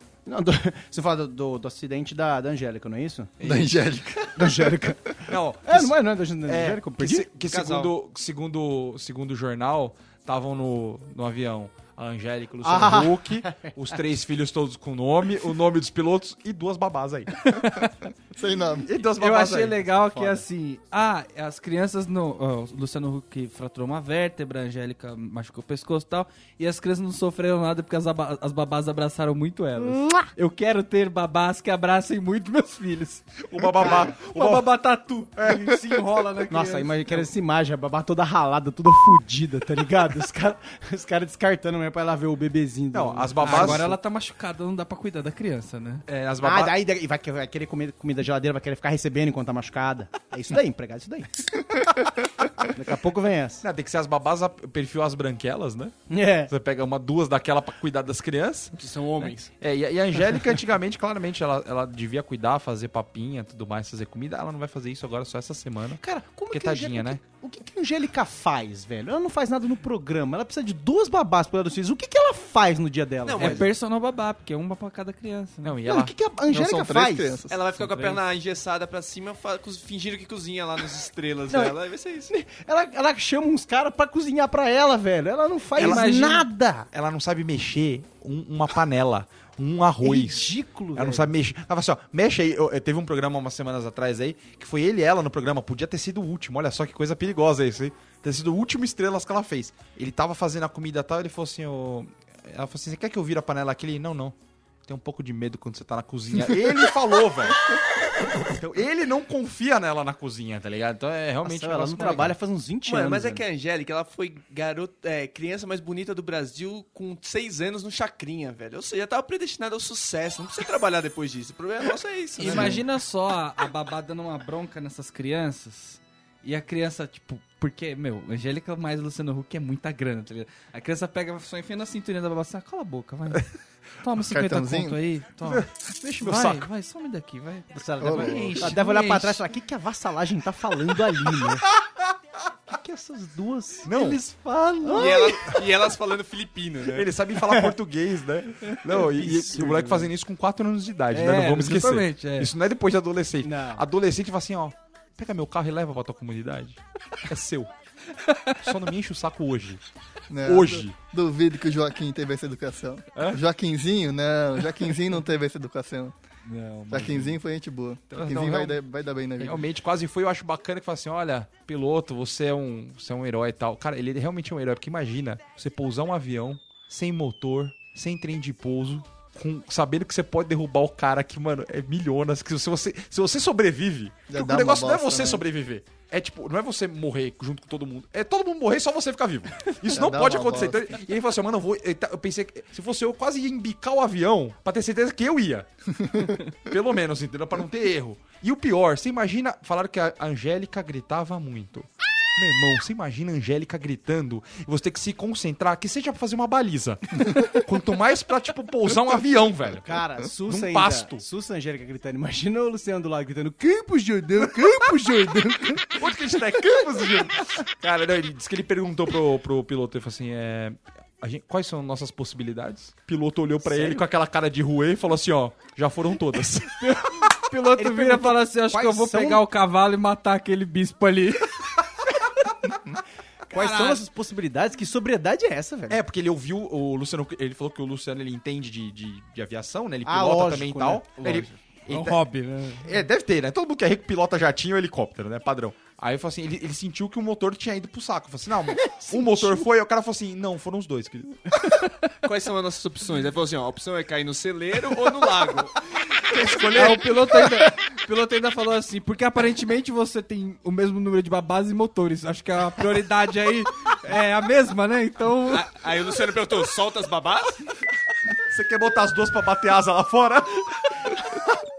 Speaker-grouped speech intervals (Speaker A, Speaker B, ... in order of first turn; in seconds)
Speaker A: 0.2-3.3, 4.3-5.1, 5.6-7.3, 12.6-13.7, 33.8-34.1, 36.5-44.0, 46.4-51.4, 52.7-53.6, 56.1-56.5, 66.0-73.7, 75.8-77.4, 81.5-81.8, 82.3-86.9, 90.0-91.2, 111.4-113.4, 122.4-122.8, 137.7-141.7, 142.7-143.9, 144.8-145.6, 149.0-150.1, 153.4-153.8, 209.8-216.0, 223.7-224.0, 227.7-229.4, 233.5-236.0, 240.0-241.5, 248.9-249.6
Speaker B: 3.4-4.9, 18.3-18.9, 76.5-77.6, 134.2-135.0, 138.0-138.6, 160.3-166.1, 166.9-169.6, 184.3-185.4, 189.9-190.9
Speaker C: 3.4-3.7, 5.3-17.3, 18.9-20.4, 33.4-34.7, 35.4-35.8, 42.9-43.9, 46.1-46.7, 53.6-55.9, 56.5-67.2, 75.6-76.1, 77.8-78.2, 85.8-107.6, 108.5-112.4, 135.4-136.7, 141.8-142.1, 143.8-144.2, 146.9-157.7, 158.6-159.8, 160.4-160.9, 166.5-167.4, 168.1-168.8, 169.4-195.7, 196.7-209.9, 210.4-211.2, 215.9-227.3, 235.9-242.2, 242.8-251.5, 256.3-257.1, 268.5-271.2
Speaker D: 7.4-7.9, 58.8-59.5, 73.2-73.7, 77.5-82.3, 112.8-122.8, 144.9-147.1, 252.2-256.9, 265.5-267.6
Speaker E: 17.4-17.9, 19.2-33.2, 33.8-37.3, 43.4-46.0, 73.4-75.8, 85.9-86.4, 122.4-133.5, 134.0-135.7, 136.2-139.4, 143.9-145.2, 151.1-152.5, 158.2-158.6, 226.8-231.5, 233.5-234.0, 241.9-242.9, 256.7-265.7